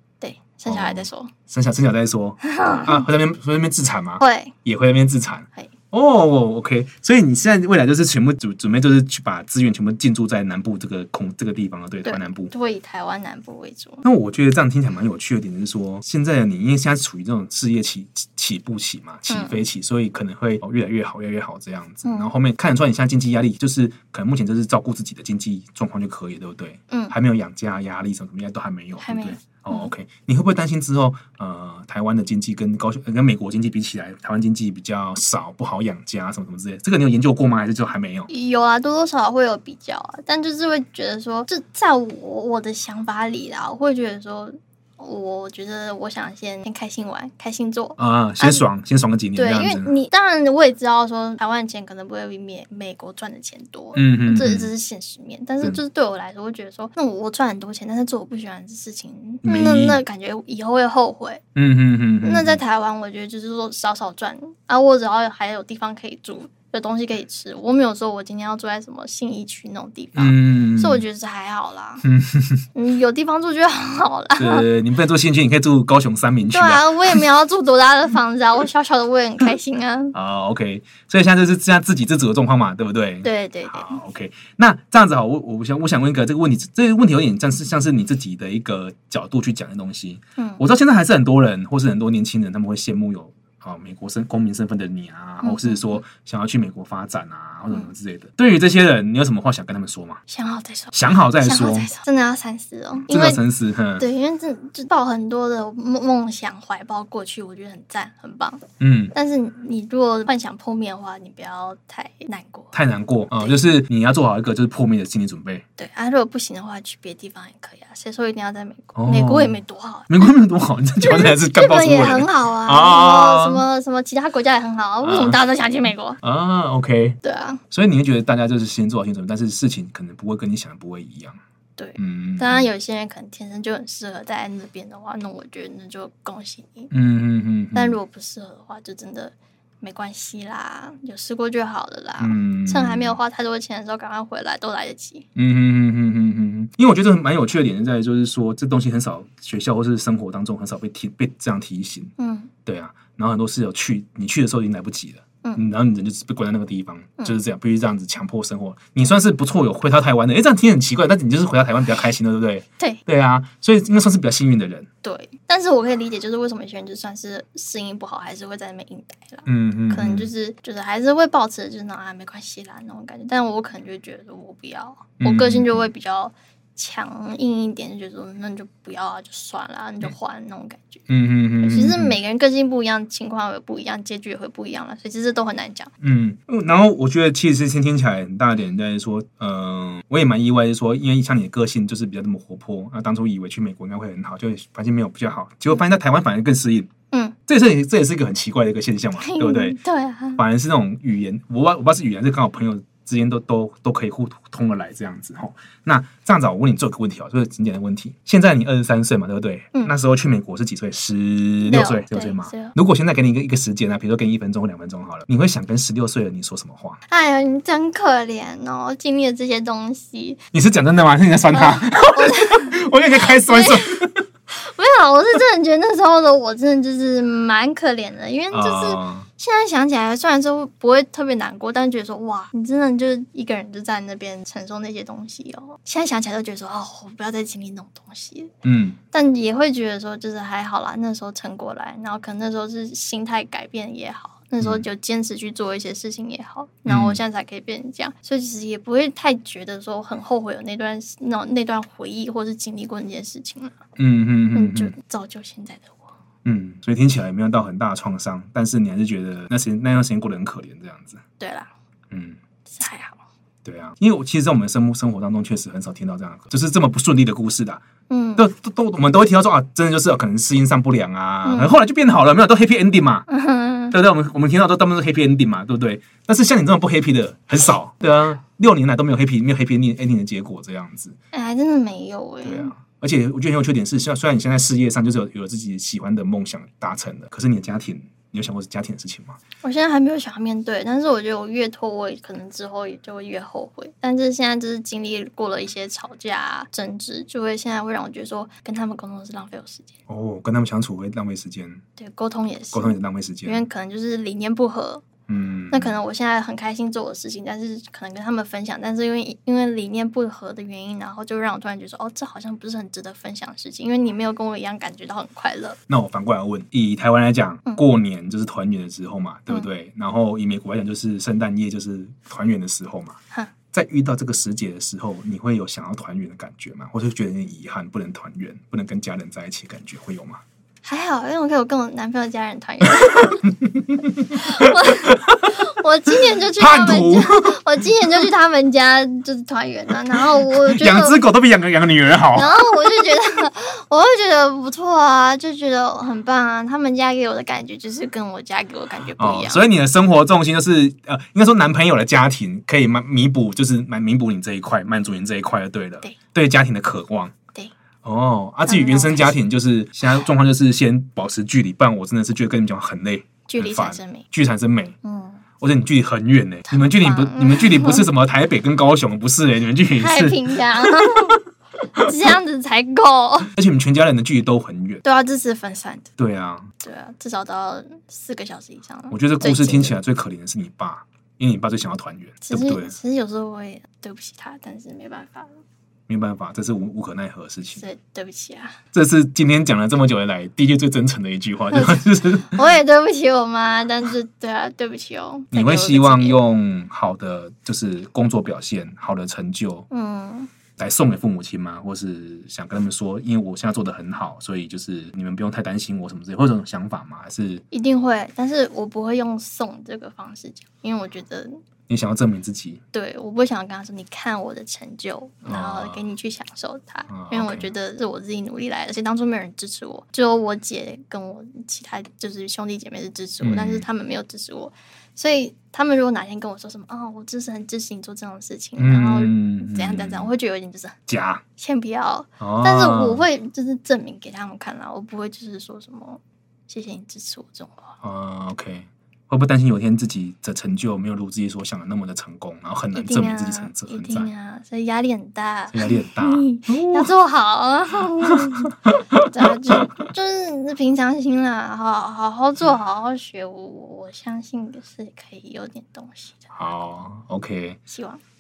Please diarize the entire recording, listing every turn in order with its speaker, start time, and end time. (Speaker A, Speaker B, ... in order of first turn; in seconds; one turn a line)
Speaker A: 0.2-1.3
Speaker B: 0.7-12.5
Speaker A: 2.4-3.0
Speaker A: 4.2-4.5
Speaker A: 12.0-14.0
Speaker B: 14.0-38.3
Speaker A: 19.3-19.6
Speaker A: 22.0-22.3
Speaker A: 29.0-29.9
Speaker A: 38.3-48.6
Speaker B: 48.0-49.9
Speaker A: 49.3-61.4
Speaker B: 53.9-54.7
Speaker B: 59.4-60.0
Speaker B: 61.5-62.6
Speaker A: 62.2-72.0
Speaker B: 70.2-71.0
Speaker B: 72.0-72.6
Speaker A: 72.7-74.7
Speaker B: 74.4-77.2
Speaker A: 76.5-80.1
Speaker B: 80.1-100.2
Speaker A: 83.2-84.0
Speaker A: 90.4-90.6
Speaker A: 95.4-96.0
Speaker A: 100.3-103.4
Speaker B: 100.9-101.9
Speaker B: 103.1-104.1
Speaker A: 104.0-112.7
Speaker B: 108.8-109.1
Speaker B: 112.7-115.6
Speaker A: 115.8-120.3
Speaker B: 119.0-123.6
Speaker A: 121.0-126.2
Speaker B: 125.0-125.4
Speaker B: 126.2-127.2
Speaker A: 127.2-127.6
Speaker B: 127.7-131.4
Speaker A: 131.8-136.9
Speaker B: 132.0-132.7
Speaker B: 136.9-138.0
Speaker A: 137.7-145.2
Speaker B: 142.2-143.2
Speaker B: 145.3-152.1
Speaker A: 152.2-152.5
Speaker B: 152.7-164.9
Speaker A: 165.0-181.0
Speaker B: 169.4-170.3
Speaker B: 175.2-175.9
Speaker B: 181.1-182.2
Speaker A: 181.6-185.9
Speaker B: 186.0-196.9
Speaker A: 197.1-197.3
Speaker B: 197.5-199.8
Speaker A: 199.2-200.4
Speaker B: 200.3-217.0
Speaker A: 211.6-212.7
Speaker A: 217.1-220.4
Speaker B: 220.5-224.2
Speaker A: 221.5-238.5
Speaker B: 228.5-229.3
Speaker B: 238.6-239.0
Speaker A: 239.1-253.8
Speaker B: 244.6-244.8
Speaker B: 246.8-247.2
Speaker B: 254.0-254.9
Speaker A: 254.5-256.1
Speaker B: 256.4-261.2
Speaker A: 261.4-261.7
Speaker B: 262.1-262.4
Speaker A: 262.7-263.2
Speaker B: 263.6-267.8
Speaker A: 268.1-268.4
Speaker B: 268.4-273.2
Speaker A: 271.4-271.7
Speaker A: 273.3-273.9
Speaker B: 273.9-281.1
Speaker A: 281.3-282.7
Speaker B: 282.4-289.4
Speaker A: 289.6-299.9
Speaker B: 300.1-301.8
Speaker A: 302.0-305.0
Speaker B: 302.7-303.6
Speaker B: 305.3-306.0
Speaker A: 305.7-315.8
Speaker B: 315.9-323.2
Speaker B: 323.7-330.4
Speaker A: 330.8-333.4
Speaker B: 333.5-335.4
Speaker A: 334.3-341.2
Speaker B: 336.6-337.8
Speaker B: 340.4-342.9
Speaker A: 342.3-349.6
Speaker B: 349.2-357.3
Speaker B: 358.0-364.9
Speaker A: 358.6-359.3
Speaker A: 363.5-364.2
Speaker A: 365.0-365.4
Speaker B: 365.6-371.4
Speaker A: 366.7-368.1
Speaker A: 369.9-371.4
Speaker A: 371.9-373.5
Speaker B: 373.5-375.0
Speaker A: 375.0-376.1
Speaker B: 376.2-376.7
Speaker A: 376.8-379.9
Speaker B: 379.1-382.9
Speaker A: 382.4-385.5
Speaker B: 386.1-387.8
Speaker A: 387.8-388.8
Speaker B: 388.9-392.6
Speaker A: 391.7-396.4
Speaker B: 395.5-399.9
Speaker A: 399.9-400.5
Speaker B: 400.8-407.6
Speaker A: 407.7-411.6
Speaker B: 411.9-412.8
Speaker A: 412.9-431.0
Speaker B: 415.4-416.0
Speaker B: 417.1-417.7
Speaker B: 423.4-423.8
Speaker B: 428.8-430.3
Speaker B: 431.1-431.4
Speaker A: 431.6-437.9
Speaker B: 432.4-433.2
Speaker B: 438.0-444.3
Speaker A: 442.9-456.4
Speaker B: 445.7-447.1
Speaker B: 456.5-457.8
Speaker A: 457.9-458.2